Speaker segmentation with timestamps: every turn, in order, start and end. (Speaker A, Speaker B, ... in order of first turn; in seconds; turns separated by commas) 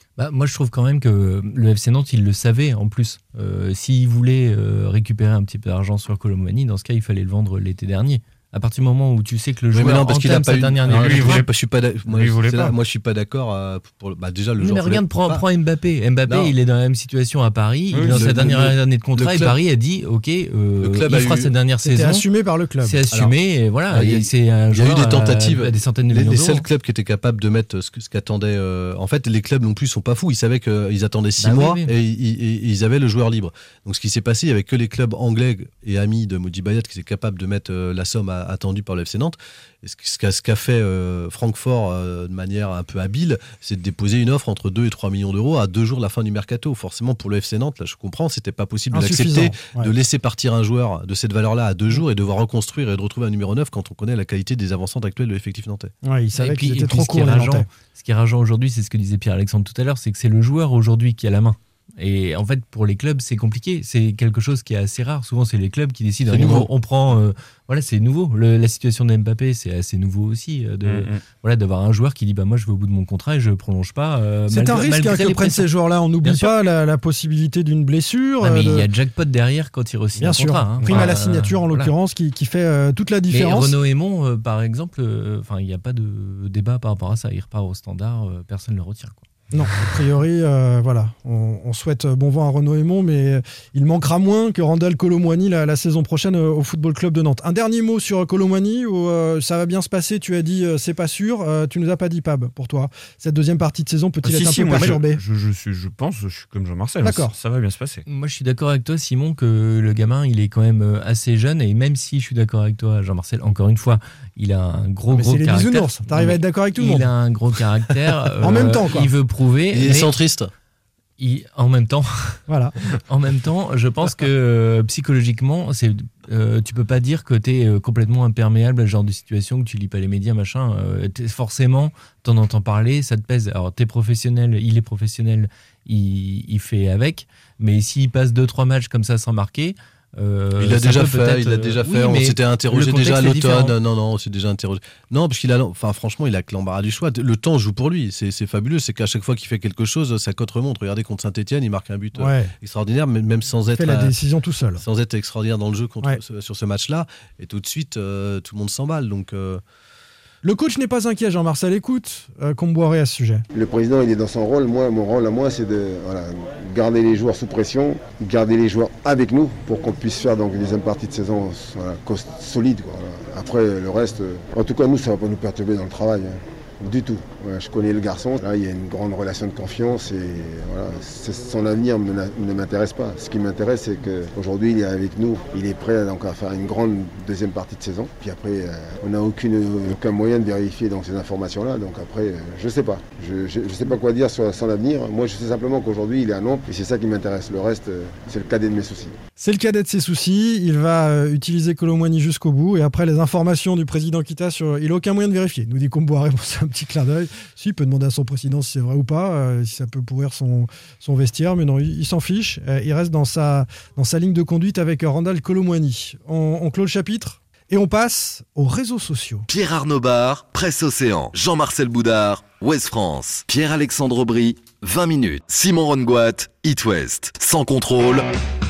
Speaker A: 0.2-11.4, Speaker B: 9.7-15.4, Speaker C: 10.8-11.5, Speaker C: 12.1-12.8, Speaker A: 14.6-22.2, Speaker B: 16.3-16.5, Speaker C: 17.9-18.2, Speaker B: 18.1-19.6, Speaker B: 20.8-21.5, Speaker D: 21.8-23.0, Speaker A: 22.8-26.6, Speaker B: 23.9-55.9, Speaker A: 31.4-31.9, Speaker D: 48.9-49.9, Speaker D: 56.0-57.7, Speaker A: 56.4-75.7, Speaker B: 66.3-66.7, Speaker C: 70.8-71.2, Speaker D: 74.5-78.9, Speaker A: 76.2-76.5, Speaker A: 78.4-81.9, Speaker D: 80.2-83.8, Speaker A: 83.3-90.0, Speaker D: 89.5-105.2, Speaker C: 104.2-108.0, Speaker D: 107.0-107.3, Speaker A: 108.1-120.1, Speaker D: 115.1-117.1, Speaker D: 118.4-119.1, Speaker B: 119.7-120.5, Speaker A: 121.2-122.4, Speaker D: 122.5-122.7, Speaker A: 123.1-143.8, Speaker B: 140.6-154.2, Speaker D: 152.2-152.5, Speaker D: 153.8-154.8, Speaker B: 154.8-159.6, Speaker D: 160.4-163.4, Speaker E: 163.5-199.2, Speaker D: 199.4-219.5, Speaker F: 219.5-228.3